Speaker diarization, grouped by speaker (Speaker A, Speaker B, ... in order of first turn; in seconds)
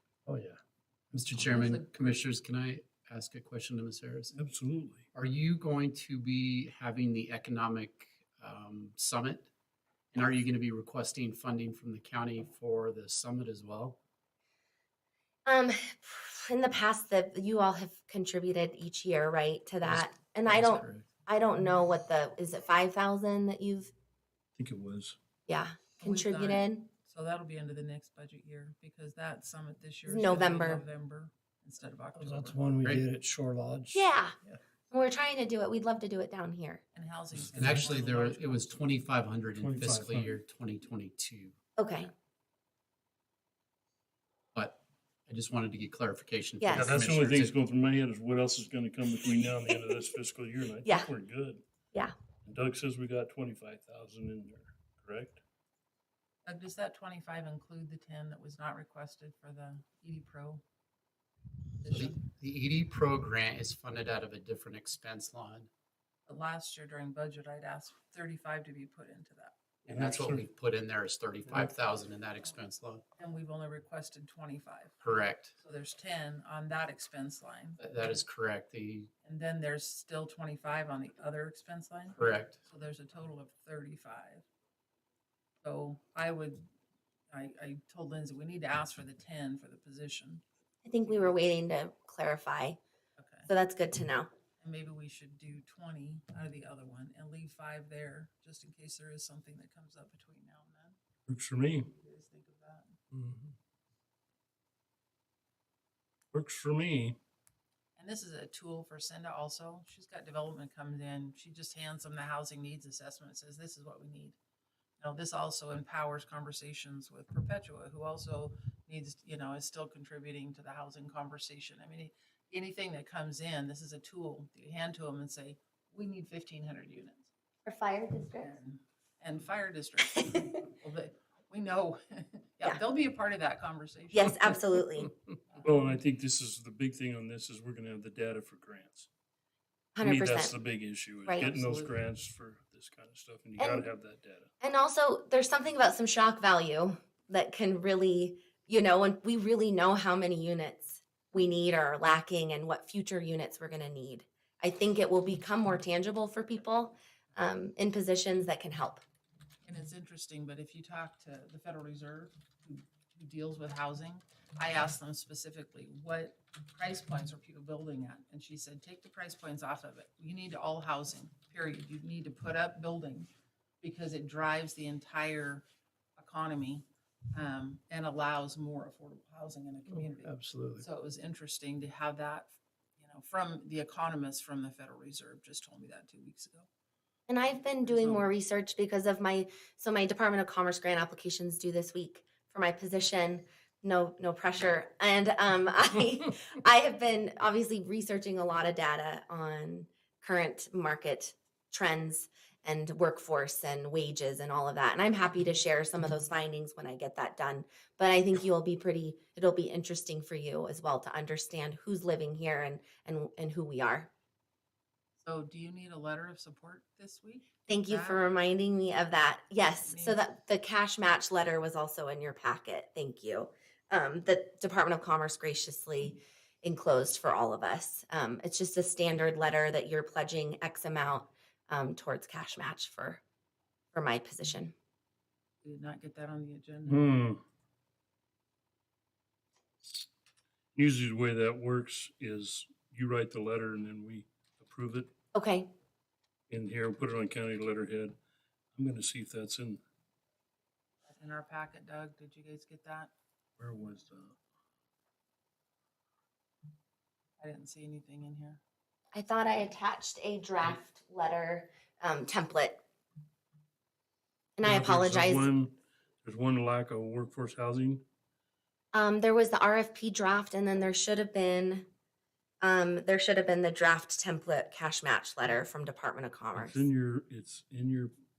Speaker A: 0.3-0.6, 4.3-5.0, 24.6-25.2, 32.1-34.6, 37.3-37.9, 39.5-40.4, 46.7-51.6, 52.5-55.4, 69.9-70.5, 101.3-101.9, 103.1-103.5, 106.3-107.2, 135.6-139.1, 140.0-144.5, 236.9-237.4, 240.8-245.1, 246.5-248.2, 248.8-249.8, 253.6-254.4, 264.6-268.0, 276.5-278.1
Speaker B: 1.1-4.3, 5.2-9.5, 10.1-14.0, 19.8-21.1, 32.8-33.1, 37.5-41.6, 44.5-47.5, 61.9-65.7, 69.9-73.0, 75.0-75.5, 77.8-79.1, 82.2-82.6, 179.9-180.8
Speaker C: 1.5-1.9, 26.0-32.6, 36.9-39.0, 56.5-60.6, 61.8-62.2, 66.3-69.8, 73.2-77.8, 79.2-84.5, 85.6-86.6, 87.3-90.4, 93.2-93.5, 94.6-101.0, 101.9-103.0, 108.0-114.4, 115.0-127.3, 128.4-134.6, 135.5-136.0, 141.4-141.9, 159.6-173.3, 173.8-175.6, 176.2-186.7, 187.8-188.2, 215.2-218.2, 219.8-220.2, 235.6-237.1, 251.1-253.1, 257.4-258.6
Speaker D: 15.5-23.9, 25.5-26.9, 30.1-30.8, 33.9-34.4, 34.9-36.8, 41.8-42.1, 46.6-46.9, 50.8-51.1, 90.8-92.8, 93.5-94.3, 127.7-128.6, 130.2-130.6, 134.1-135.1, 139.9-140.6, 143.6-143.9, 144.6-159.0, 187.3-214.1, 217.7-233.2, 233.9-234.7, 245.3-245.7, 259.1-262.8, 264.6-265.5, 268.9-271.9, 272.6-276.9